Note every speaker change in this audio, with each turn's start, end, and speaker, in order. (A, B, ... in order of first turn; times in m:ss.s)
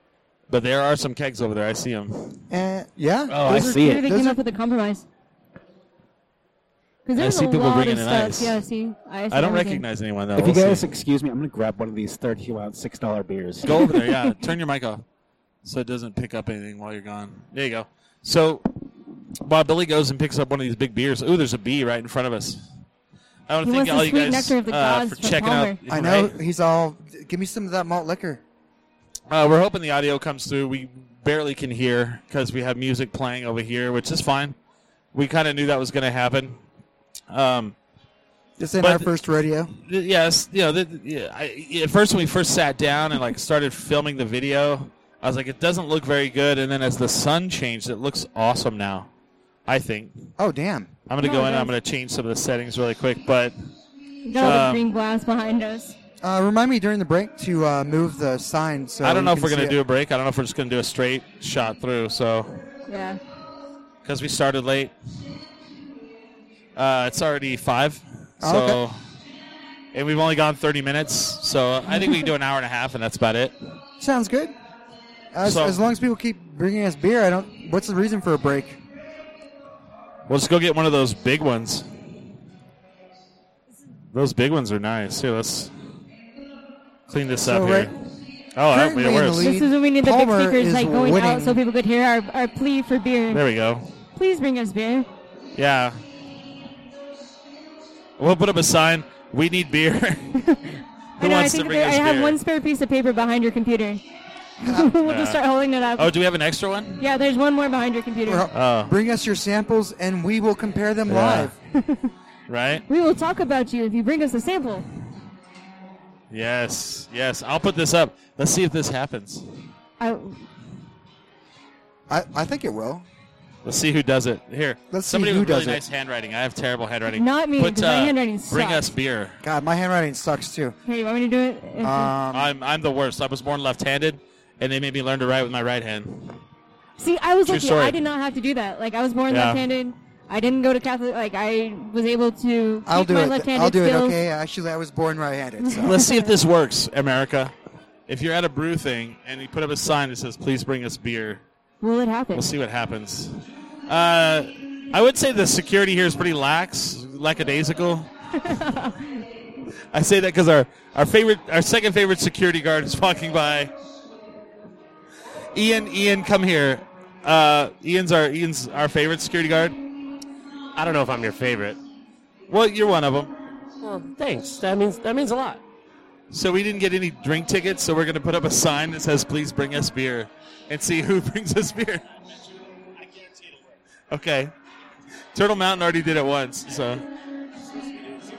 0:00.5-0:02.4 A
0:02.5-0:04.4 B
0:03.3-0:04.1 C
0:03.5-0:05.0 D
0:07.1-0:09.8 D
0:07.2-0:08.6 A
0:09.3-0:10.8 A
0:10.4-0:13.9 C
0:13.6-0:15.0 A
0:15.6-0:18.7 A
0:19.4-0:22.6 A
0:23.5-0:26.4 A
0:23.6-0:25.8 D
0:25.9-0:28.4 B
0:29.3-0:34.6 A
0:35.1-0:36.6 A
0:37.3-0:37.7 A
0:38.6-0:39.7 B
0:38.8-0:39.1 A
0:39.9-0:49.1 A
0:49.7-0:50.3 A
0:50.4-0:50.9 B
0:51.1-0:53.5 A
0:51.2-0:51.7 D
0:54.3-0:56.0 D
0:54.4-0:54.9 A
0:56.2-0:59.8 B
0:59.0-1:02.6 A
1:02.9-1:03.2 D
1:04.0-1:04.9 A
1:06.8-1:09.0 A
1:08.4-1:08.8 B
1:09.9-1:13.5 A
1:14.0-1:14.5 B
1:15.3-1:18.8 B
1:15.4-1:15.8 A
1:20.3-1:21.9 A
1:24.1-1:25.7 A
1:27.1-1:27.9 A
1:27.4-1:27.9 B
1:28.6-1:29.5 A
1:28.7-1:31.6 B
1:29.4-1:33.4 D
1:33.3-1:33.9 A
1:34.2-1:35.1 D
1:35.6-1:36.0 A
1:38.2-1:40.4 A
1:40.4-1:44.0 D
1:41.2-1:42.4 A
1:44.6-1:46.1 D
1:44.6-1:44.9 B
1:45.0-1:45.4 A
1:46.0-1:47.0 A
1:47.0-1:48.4 D
1:48.3-1:51.5 B
1:48.5-1:48.9 A
1:51.1-1:51.5 A
1:51.7-1:52.1 D
1:52.5-1:52.8 A
1:52.9-1:54.9 D
1:56.3-1:59.5 A
2:00.0-2:00.5 D
2:02.1-2:03.0 B
2:03.6-2:09.4 A
2:04.9-2:05.8 B
2:07.1-2:08.9 D
2:09.4-2:10.8 B
2:10.9-2:12.1 D
2:11.8-2:12.5 B
2:12.3-2:16.4 A
2:17.0-2:24.2 D
2:17.5-2:18.0 A
2:19.3-2:19.6 A
2:22.9-2:26.0 B
2:25.7-2:26.3 D
2:25.8-2:27.5 A
2:28.1-2:31.4 A
2:31.8-2:32.4 D
2:32.3-2:38.6 A
2:38.4-2:39.0 D
2:39.9-2:43.7 A
2:45.6-2:49.8 A
2:50.8-2:51.8 E
2:52.5-2:53.3 A
2:53.8-2:55.6 E
2:56.3-3:02.0 A
3:04.1-3:04.5 A
3:05.3-3:07.0 A